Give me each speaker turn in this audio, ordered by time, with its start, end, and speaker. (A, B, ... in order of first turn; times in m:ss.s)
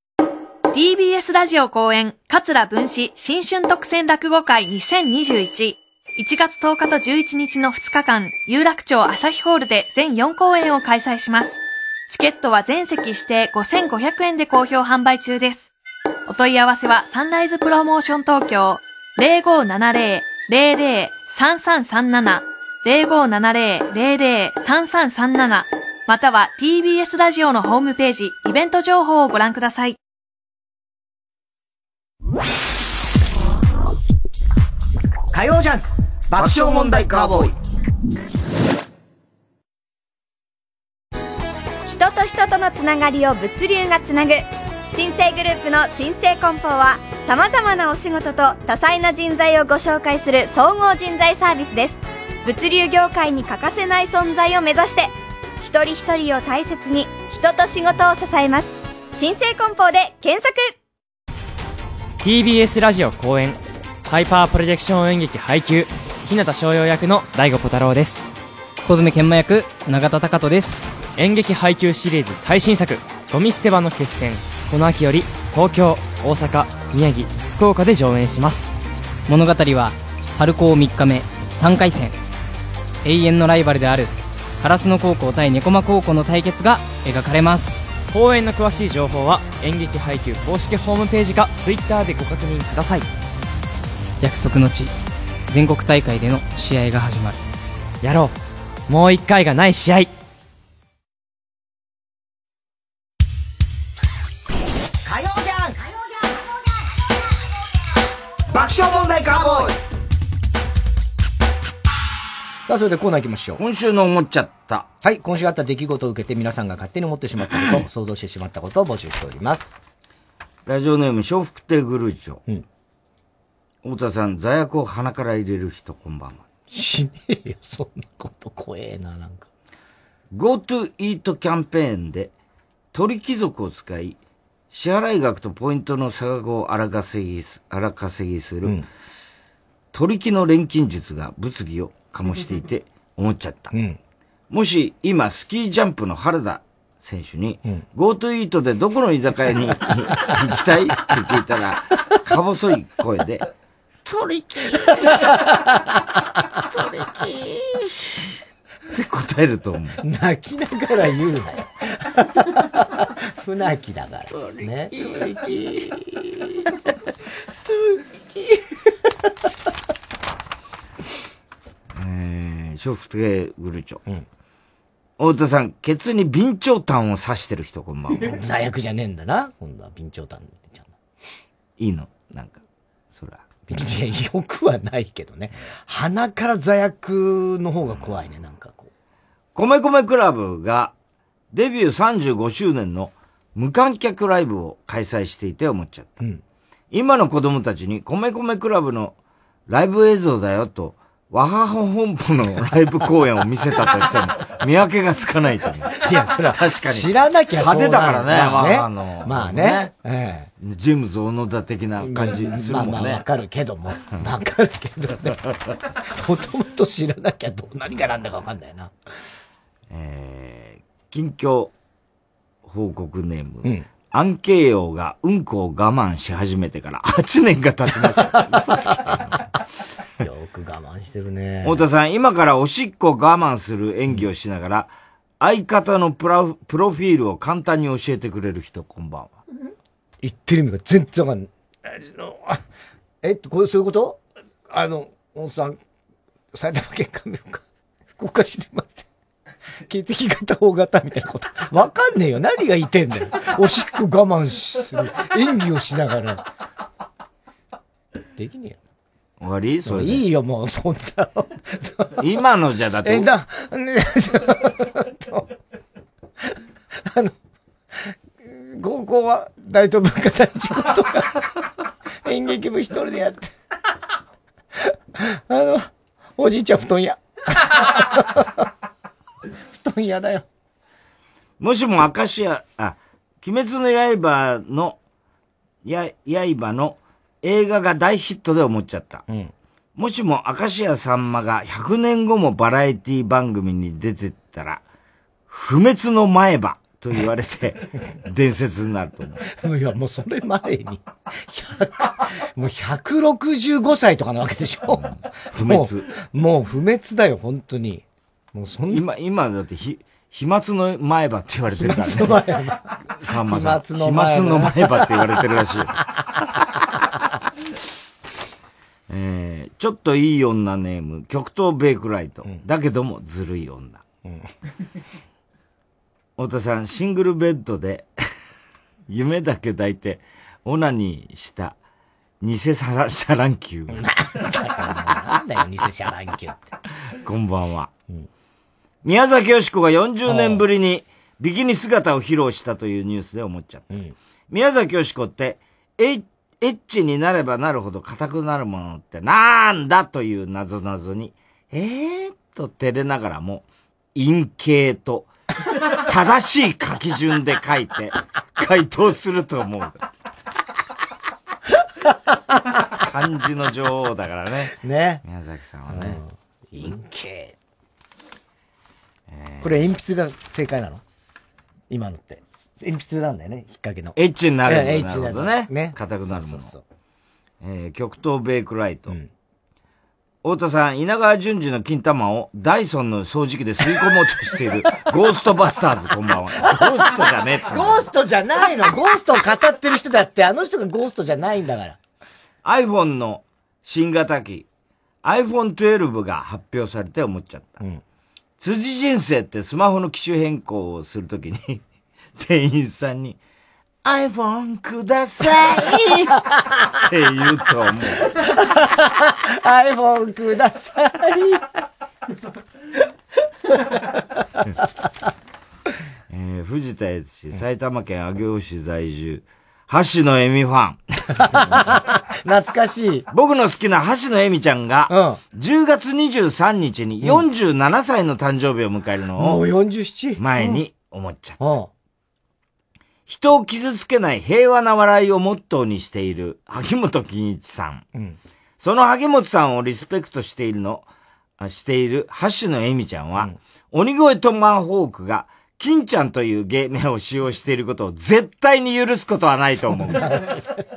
0:00.7-0:15.7 A
0:16.3-0:30.0 A
0:35.3-0:37.5 B
0:36.4-0:37.6 C
0:41.9-1:00.7 D
1:02.2-1:08.3 E
1:08.8-1:11.0 F
1:11.2-1:18.7 E
1:19.3-1:22.1 F
1:23.0-1:27.9 F
1:28.1-1:33.1 E
1:34.2-1:34.9 F
1:35.5-1:37.4 F
1:38.0-1:38.4 E
1:38.9-1:40.1 E
1:45.1-1:45.9 B
1:48.6-1:49.7 B
1:52.7-1:53.6 B
1:53.6-1:54.9 C
1:55.0-1:59.8 B
2:00.7-2:02.4 C
2:03.8-2:06.4 C
2:06.7-2:09.5 B
2:10.3-2:12.3 C
2:12.9-2:14.2 C
2:14.7-2:18.8 C
2:19.9-2:23.7 C
2:23.7-2:24.0 B
2:24.5-2:33.5 C
2:34.0-2:35.4 C
2:35.1-2:35.9 B
2:36.7-2:38.3 C
2:38.9-2:40.0 C
2:40.0-2:46.6 B
2:44.3-2:45.2 C
2:47.7-2:48.7 B
2:51.9-2:54.0 C
2:55.2-2:58.4 C
2:58.2-3:01.0 B
3:01.8-3:03.5 C
3:03.7-3:08.9 B
3:09.6-3:10.9 C
3:11.5-3:16.2 C
3:16.9-3:19.2 C
3:19.7-3:29.9 C
3:26.0-3:30.5 B
3:30.6-3:33.2 C
3:32.0-3:38.9 B
3:39.9-3:41.7 C
3:42.6-3:49.4 C
3:48.2-3:49.4 B
3:50.2-3:51.8 B
3:51.6-3:59.4 C
4:00.2-4:02.6 B
4:03.2-4:05.8 B
4:06.5-4:09.1 B
4:09.9-4:16.4 B
4:18.4-4:18.8 B
4:19.4-4:20.2 C
4:19.9-4:22.2 B
4:22.2-4:23.3 C
4:23.0-4:25.5 B
4:27.1-4:27.3 B
4:28.5-4:31.5 B
4:32.2-4:33.5 B
4:35.2-4:38.6 B
4:39.7-4:40.5 B
4:41.6-4:45.0 C
4:45.8-4:49.2 C
4:50.0-4:54.8 C
4:55.5-4:59.4 C
4:59.5-5:09.0 B
5:05.5-5:06.1 C
5:08.9-5:12.5 C
5:11.8-5:15.3 B
5:13.2-5:16.0 C
5:19.1-5:24.0 C
5:26.4-5:28.1 C
5:29.1-5:31.8 C
5:32.4-5:34.0 C
5:33.9-5:36.7 B
5:37.2-5:37.9 C
5:39.0-5:43.9 C
5:40.3-5:40.6 B
5:44.5-5:55.3 C
5:55.9-6:00.0 C
6:02.9-6:04.7 C
6:04.7-6:05.2 B
6:05.2-6:06.2 C
6:05.9-6:07.6 B
6:09.3-6:09.7 C
6:09.6-6:11.0 B
6:11.9-6:16.8 B
6:14.2-6:16.7 C
6:17.6-6:19.2 C
6:20.4-6:28.1 C
6:26.6-6:27.0 B
6:27.7-6:32.0 B
6:32.6-6:34.7 C
6:35.2-6:37.8 C
6:38.6-6:41.8 C
6:42.4-6:43.4 C
6:44.0-6:48.3 C
6:48.4-6:51.6 B
6:56.3-7:01.8 C
7:01.4-7:03.3 B
7:03.3-7:09.6 C
7:05.1-7:05.4 B
7:09.4-7:10.8 B
7:10.4-7:11.6 C
7:11.6-7:11.9 B
7:13.3-7:18.1 C
7:18.8-7:21.1 C
7:21.6-7:30.5 C